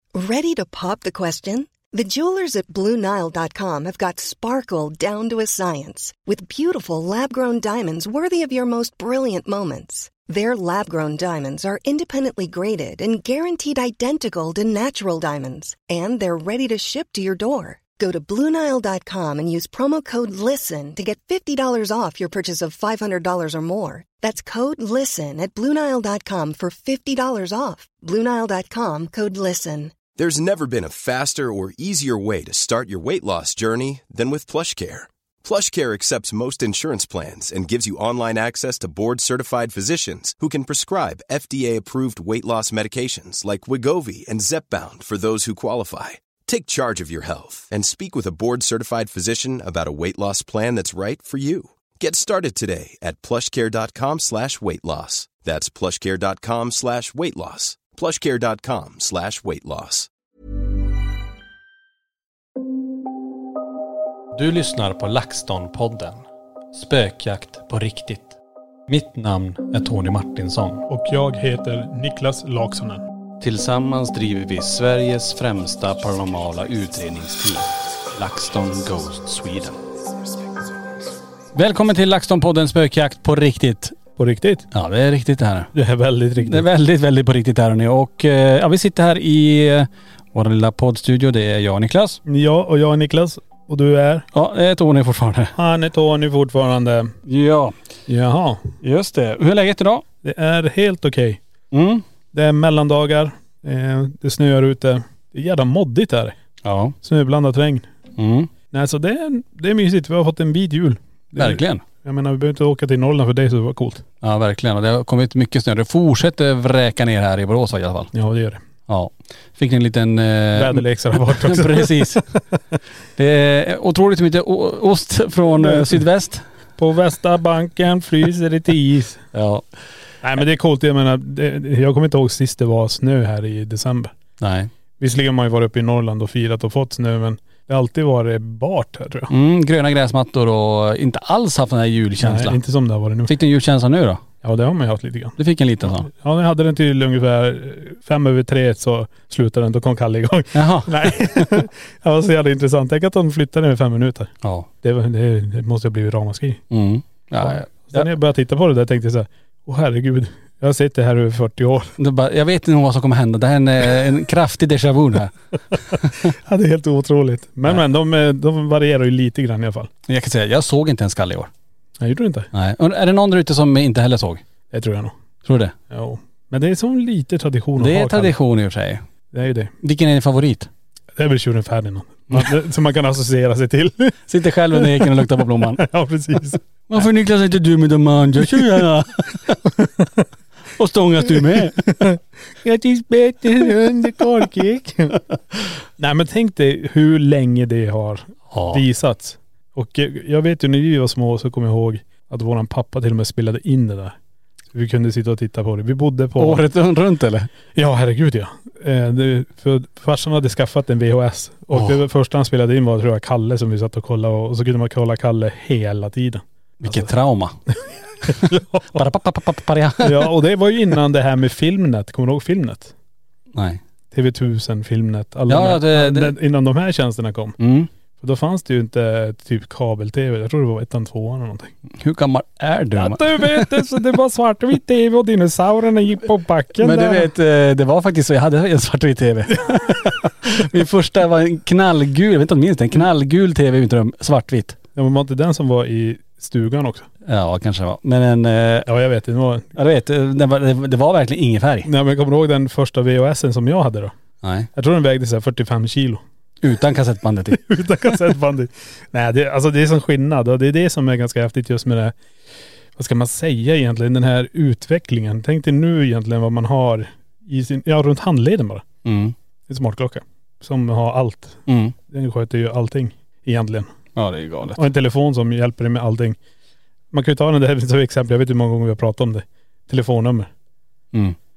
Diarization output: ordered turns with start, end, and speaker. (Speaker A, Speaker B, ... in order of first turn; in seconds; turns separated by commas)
Speaker A: 0.1-29.9, Speaker B: 30.2-60.1, Speaker C: 64.3-70.8, Speaker D: 70.9-73.0, Speaker C: 73.4-79.8, Speaker C: 81.5-84.0, Speaker D: 84.2-84.7, Speaker C: 84.7-85.7, Speaker D: 85.7-86.6, Speaker C: 86.4-92.2, Speaker D: 92.2-94.3, Speaker C: 94.3-95.5, Speaker D: 95.5-97.1, Speaker C: 97.2-97.8, Speaker D: 98.1-98.7, Speaker C: 98.8-100.0, Speaker D: 100.2-101.4, Speaker C: 101.7-102.0, Speaker D: 102.3-106.3, Speaker C: 106.6-107.0, Speaker D: 107.0-107.9, Speaker C: 108.2-108.5, Speaker D: 108.7-114.0, Speaker C: 111.3-111.8, Speaker C: 114.2-118.1, Speaker D: 118.1-118.6, Speaker C: 118.9-122.3, Speaker D: 120.5-122.6, Speaker C: 123.2-126.4, Speaker D: 125.6-126.0, Speaker D: 126.8-129.2, Speaker C: 129.3-129.6, Speaker D: 130.2-134.1, Speaker C: 134.4-134.7, Speaker D: 135.0-139.3, Speaker C: 139.3-142.6, Speaker D: 142.2-143.3, Speaker C: 143.2-144.2, Speaker D: 144.4-156.6, Speaker C: 145.4-146.1, Speaker C: 150.5-151.6, Speaker C: 154.4-154.7, Speaker C: 156.7-158.1, Speaker D: 157.4-161.9, Speaker C: 162.0-166.3, Speaker D: 166.2-169.9, Speaker C: 170.1-171.5, Speaker D: 172.0-172.5, Speaker C: 172.5-174.4, Speaker D: 174.7-175.1, Speaker C: 175.4-175.7, Speaker D: 175.9-178.3, Speaker C: 177.8-179.0, Speaker D: 179.3-179.7, Speaker C: 179.8-180.7, Speaker D: 181.1-184.2, Speaker C: 184.3-185.8, Speaker D: 184.7-186.6, Speaker C: 186.9-189.6, Speaker D: 189.7-190.2, Speaker C: 190.8-192.1, Speaker D: 192.0-195.2, Speaker C: 192.7-193.7, Speaker D: 196.0-204.2, Speaker C: 198.5-198.8, Speaker D: 204.7-206.6, Speaker C: 206.4-207.5, Speaker D: 207.7-217.1, Speaker C: 216.8-217.6, Speaker D: 217.7-219.0, Speaker C: 218.2-220.3, Speaker D: 220.0-222.9, Speaker C: 223.5-223.8, Speaker D: 224.1-227.6, Speaker C: 225.5-226.3, Speaker C: 227.6-227.9, Speaker D: 228.2-231.7, Speaker C: 231.9-233.7, Speaker D: 233.0-237.3, Speaker C: 236.8-244.8, Speaker D: 239.7-240.1, Speaker D: 244.9-247.1, Speaker C: 247.2-248.9, Speaker D: 248.8-249.7, Speaker C: 249.7-251.9, Speaker D: 251.8-254.1, Speaker C: 254.4-254.7, Speaker D: 254.7-256.2, Speaker C: 256.6-257.6, Speaker D: 257.5-262.1, Speaker D: 262.9-268.8, Speaker C: 269.0-269.3, Speaker D: 269.7-273.9, Speaker C: 271.7-271.9, Speaker C: 274.1-274.9, Speaker D: 274.7-276.4, Speaker D: 277.1-280.5